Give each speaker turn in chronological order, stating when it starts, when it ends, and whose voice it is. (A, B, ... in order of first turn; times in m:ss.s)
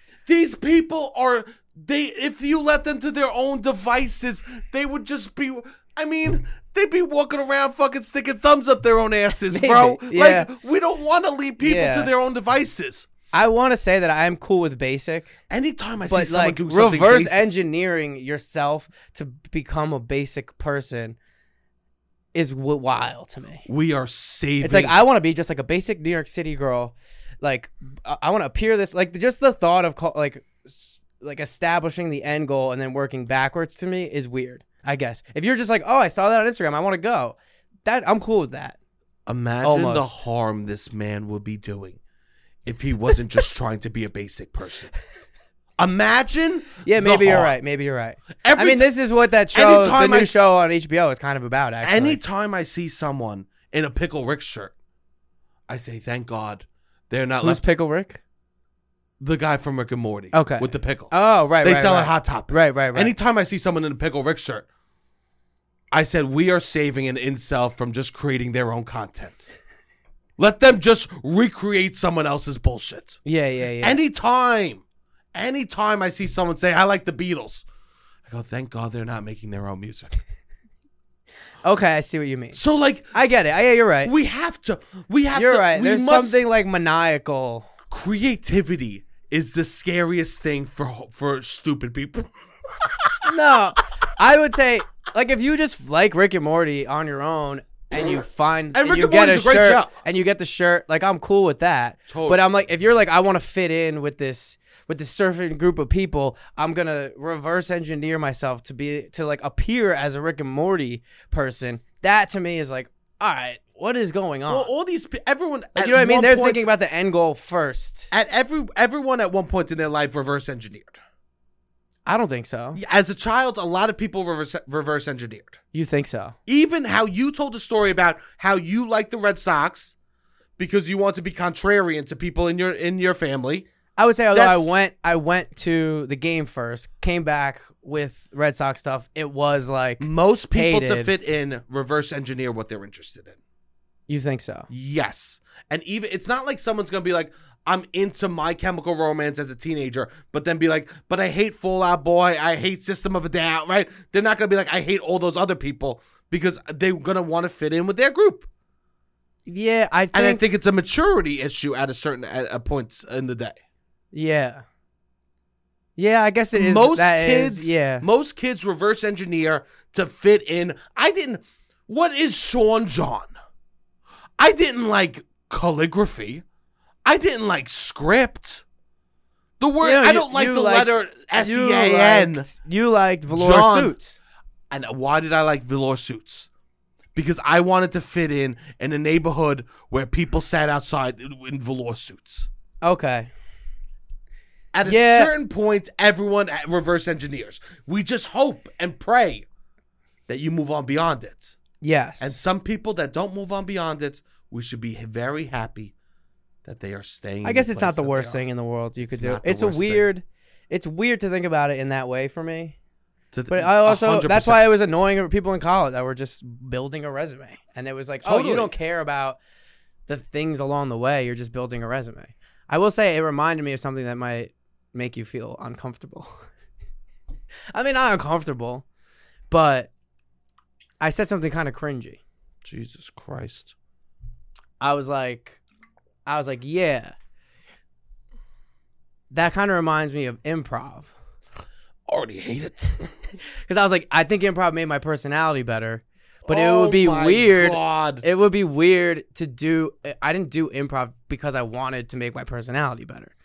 0:00.2-0:13.1 A
0:09.5-0:10.5 B
0:11.6-0:12.1 B
0:13.3-0:15.3 B
0:15.5-0:17.5 A
0:16.1-0:21.2 B
0:22.3-0:23.6 B
0:23.7-0:25.0 A
0:24.6-0:38.8 B
0:39.2-0:42.0 A
0:39.6-0:40.2 B
0:42.6-0:44.9 A
0:45.8-0:47.5 A
0:46.8-0:52.2 B
0:48.4-0:48.9 A
0:49.5-0:50.4 A
0:51.8-0:54.7 A
0:55.7-0:57.6 A
0:57.4-0:58.2 B
0:59.2-1:04.6 A
1:00.3-1:03.1 B
1:05.9-1:09.5 A
1:10.4-1:13.2 A
1:13.2-1:14.0 B
1:13.8-1:14.8 A
1:15.3-1:17.6 A
1:18.2-1:20.2 A
1:21.6-1:22.6 B
1:22.5-1:23.2 A
1:23.1-1:24.1 B
1:24.0-1:26.4 A
1:25.3-1:27.7 B
1:27.9-1:33.3 A
1:33.2-1:54.7 B
1:38.7-1:39.9 A
1:42.1-1:42.4 A
1:54.5-1:56.7 A
1:55.8-1:58.1 B
1:58.1-2:01.0 A
2:02.0-2:02.8 B
2:02.7-2:05.6 A
2:05.7-2:06.4 B
2:06.5-2:09.9 A
2:10.6-2:13.7 A
2:14.0-2:21.1 B
2:14.3-2:14.7 A
2:20.0-2:23.4 A
2:24.1-2:24.7 B
2:24.7-2:38.5 A
2:39.5-2:40.4 B
2:40.1-2:43.6 A
2:44.1-2:44.6 B
2:46.0-2:48.0 B
2:46.5-2:53.3 A
2:54.4-2:56.4 A
2:57.0-2:58.6 A
2:59.6-3:02.5 A
2:59.8-3:04.2 B
3:03.3-3:03.9 A
3:04.7-3:06.5 A
3:07.1-3:12.5 A
3:12.8-3:13.3 B
3:14.7-3:19.4 A
3:14.8-3:15.3 B
3:20.3-3:21.6 A
3:21.8-3:22.4 B
3:22.2-3:25.9 A
3:26.6-3:28.4 A
3:27.4-3:32.8 B
3:29.0-3:30.1 A
3:33.3-3:34.8 A
3:33.5-3:39.4 B
3:38.2-3:38.7 A
3:40.1-3:46.3 B
3:47.7-3:48.8 B
3:49.5-3:49.9 B
3:51.0-3:52.2 B
3:52.6-3:53.7 A
3:54.8-3:55.6 B
3:56.2-3:57.1 B
3:59.3-4:01.1 B
4:02.1-4:03.1 A
4:03.6-4:13.3 B
4:06.4-4:08.2 A